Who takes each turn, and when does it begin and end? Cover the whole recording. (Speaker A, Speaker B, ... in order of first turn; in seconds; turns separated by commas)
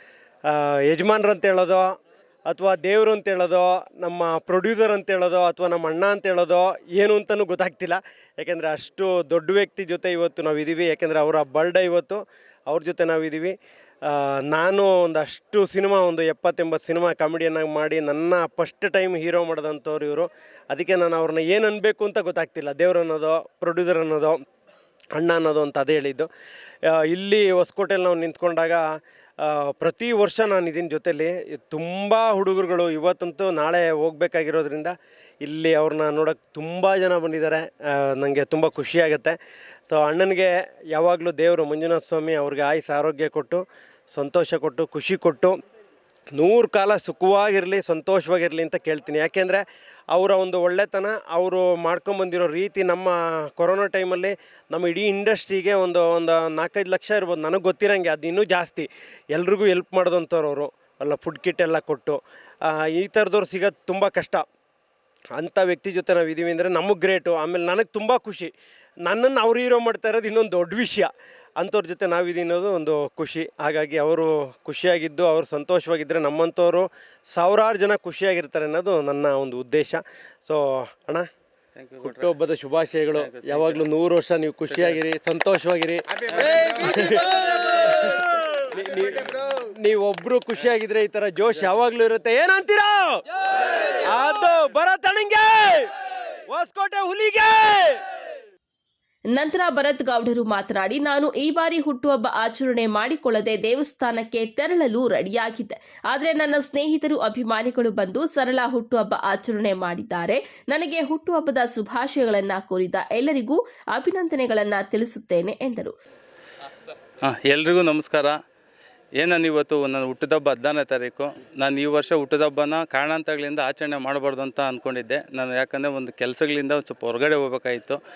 Speaker A: 0.5-1.8, Speaker A: 2.5-13.5, Speaker A: 14.0-24.4, Speaker A: 25.1-26.3, Speaker A: 26.9-28.9, Speaker A: 29.4-39.4, Speaker A: 39.9-45.5, Speaker A: 46.4-64.4, Speaker A: 65.3-68.5, Speaker A: 69.0-81.3, Speaker B: 81.8-82.3, Speaker A: 82.0-93.2, Speaker B: 83.1-83.8, Speaker B: 84.7-85.0, Speaker A: 94.0-95.9, Speaker A: 96.5-98.0, Speaker C: 99.3-115.9, Speaker B: 117.2-118.3, Speaker B: 119.2-128.0